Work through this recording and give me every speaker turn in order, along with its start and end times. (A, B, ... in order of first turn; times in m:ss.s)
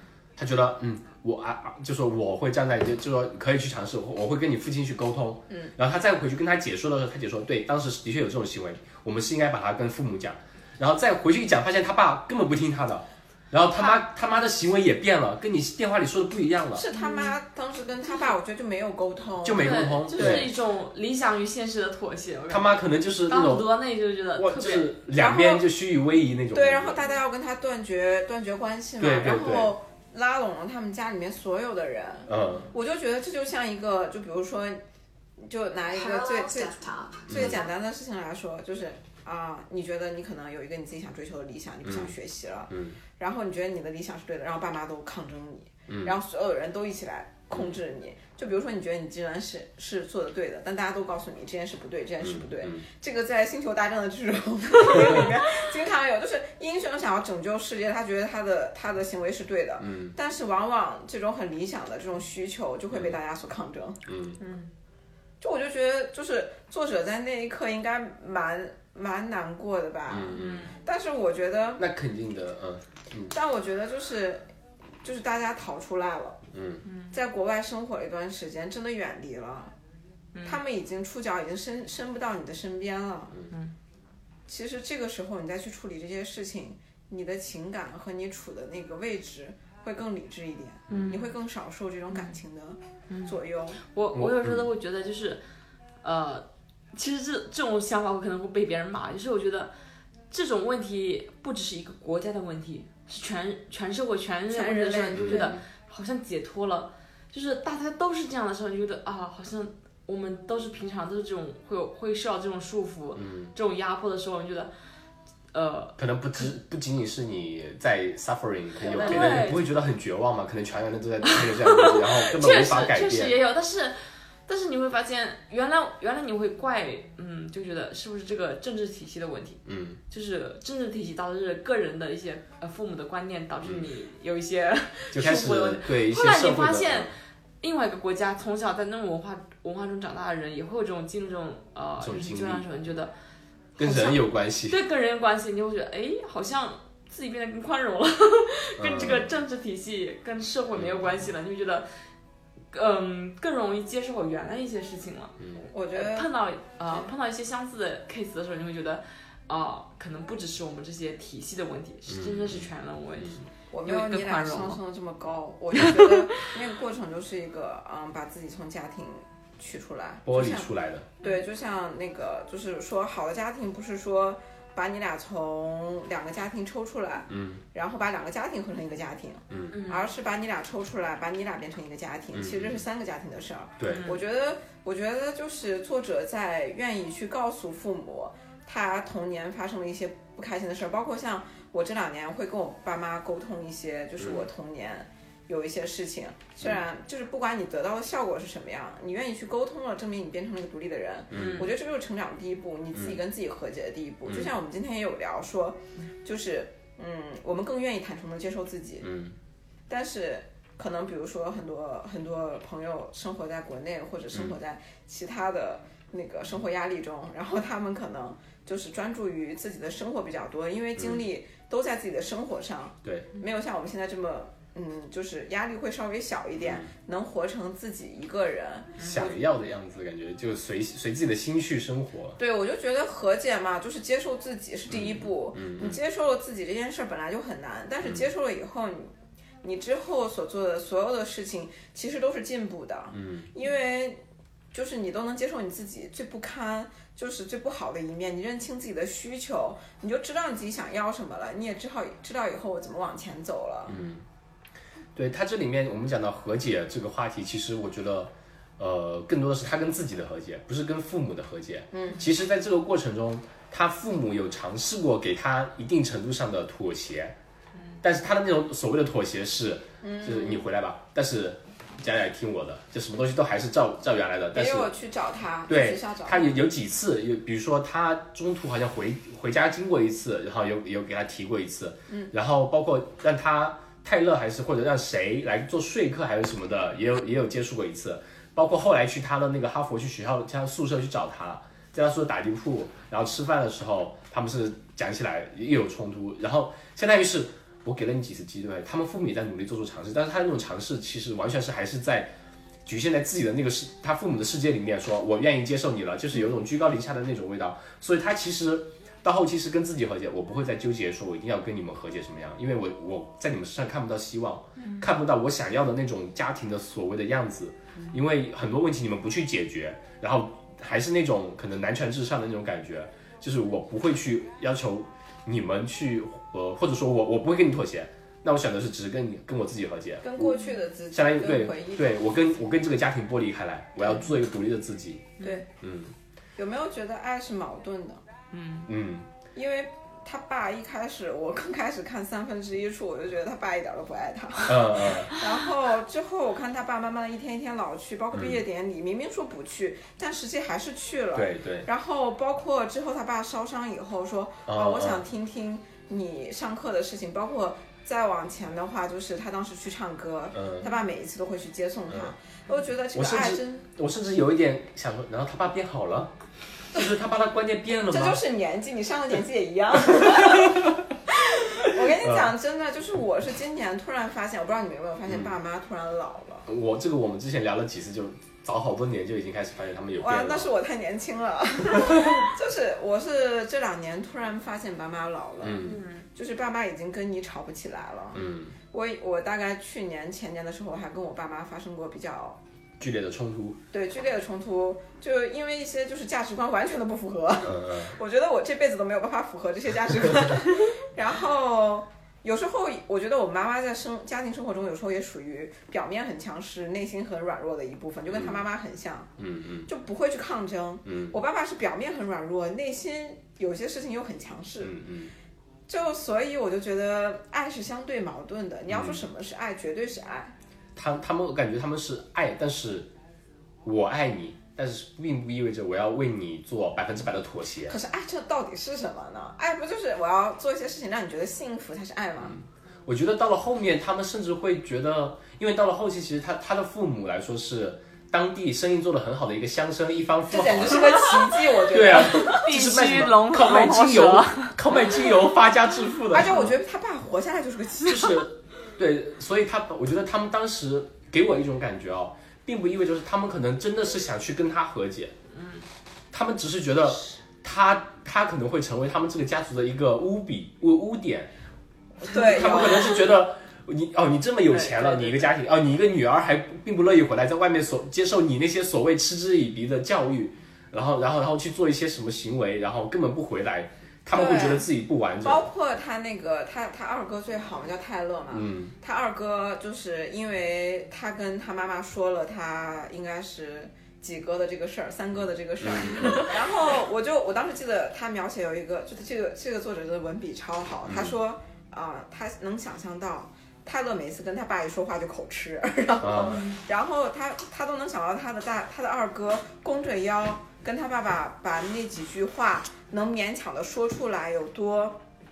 0:00.4-0:16.8 A
0:16.7-0:20.5 B
0:16.9-0:17.3 C
0:19.4-0:20.5 A
0:19.6-0:24.9 C
0:22.5-0:23.6 A
0:24.4-0:27.0 A
0:25.1-0:25.7 B
0:26.5-0:34.8 B
0:29.0-0:29.7 A
0:32.3-0:32.7 A
0:35.4-1:04.0 B
0:37.2-0:37.6 A
0:41.8-0:42.1 A
0:42.7-0:43.0 A
0:45.9-0:46.2 A
0:52.2-0:52.8 A
0:59.8-1:00.1 A
1:04.1-1:04.4 A
1:04.4-1:04.7 C
1:05.4-1:11.8 B
1:10.1-1:10.7 A
1:10.4-1:10.7 C
1:11.8-1:13.3 A
1:13.3-1:14.4 B
1:15.0-1:16.4 B
1:16.5-1:16.8 A
1:16.8-1:17.2 C
1:17.1-1:19.7 B
1:20.3-1:20.6 C
1:20.4-1:23.3 B
1:24.5-1:33.8 B
1:30.9-1:31.3 C
1:33.1-1:35.4 C
1:34.1-1:34.6 A
1:36.0-1:39.7 C
1:40.3-1:54.7 C
1:44.5-1:45.5 B
1:45.1-1:45.6 A
1:53.2-1:53.5 A
1:55.5-1:56.5 C
1:56.0-2:03.3 A
1:58.8-1:59.6 C
2:01.5-2:04.0 C
2:04.5-2:23.1 C
2:09.6-2:10.0 A
2:15.1-2:17.1 A
2:22.0-2:22.6 A
2:23.8-2:24.8 A
2:23.8-2:31.9 C
2:28.8-2:29.3 A
2:30.7-2:31.3 A
2:32.7-2:44.8 C
2:35.7-2:36.3 B
2:42.1-2:43.4 A
2:43.7-3:29.1 B
2:45.7-2:46.2 C
2:50.2-2:51.1 A
2:57.3-2:57.6 A
2:59.5-2:59.8 A
2:59.7-3:00.0 C
3:02.3-3:02.8 A
3:03.8-3:04.0 A
3:03.8-3:04.2 C
3:14.2-3:14.4 A
3:21.3-3:21.7 A
3:21.3-3:21.7 C
3:22.9-3:23.2 A
3:29.0-3:29.3 A
3:29.9-3:49.4 B
3:41.0-3:41.2 A
3:43.0-3:43.3 A
3:46.6-3:46.9 A
3:49.0-3:52.4 A
3:52.4-4:04.2 B
3:54.9-3:56.0 A
4:03.1-4:03.5 A
4:04.7-4:14.0 B
4:13.9-4:14.2 A
4:15.2-4:27.4 A
4:21.9-4:22.2 B
4:28.0-4:34.9 A
4:30.0-4:30.6 B
4:34.5-4:36.5 B
4:35.7-5:02.3 A
5:02.8-5:30.6 A
5:14.8-5:15.1 C
5:30.2-5:32.2 B
5:31.1-5:36.1 A
5:35.4-5:35.7 B
5:36.6-5:38.2 B
5:38.5-5:38.9 C
5:38.8-5:39.3 A
5:39.5-6:03.9 B
5:44.6-5:45.3 A
5:48.3-5:48.6 A
5:51.3-5:51.9 A
5:54.6-5:55.2 A
6:00.5-6:00.9 A
6:03.1-6:06.3 A
6:06.9-6:08.4 A
6:08.1-6:16.7 B
6:12.2-6:12.5 A
6:15.3-6:15.5 A
6:16.7-6:20.7 A
6:20.2-6:32.6 B
6:25.6-6:26.0 A
6:25.8-6:26.2 C
6:28.3-6:28.8 A
6:33.0-6:33.8 A
6:33.9-6:49.3 B
6:37.6-6:38.2 A
6:48.3-6:48.6 A
6:49.4-6:49.9 A
6:49.9-6:55.0 B
6:51.0-6:51.4 A
6:54.8-6:55.3 A
6:55.9-7:00.5 B
6:58.9-6:59.2 A
7:01.0-7:03.1 A
7:03.8-7:08.0 A
7:07.9-7:12.6 B
7:12.4-7:21.3 A
7:20.5-7:22.6 B
7:21.9-7:26.7 A
7:22.1-7:24.8 C
7:26.3-7:28.4 B
7:28.0-7:35.3 A
7:35.5-7:35.8 C
7:36.3-7:41.5 A
7:42.2-7:43.2 B
7:42.2-7:55.7 A
7:44.7-7:45.5 C
7:54.3-7:54.9 B
7:55.4-8:25.2 B
7:58.5-7:58.9 A
8:05.8-8:06.5 A
8:11.1-8:11.3 A
8:16.2-8:16.6 A
8:16.5-8:16.8 C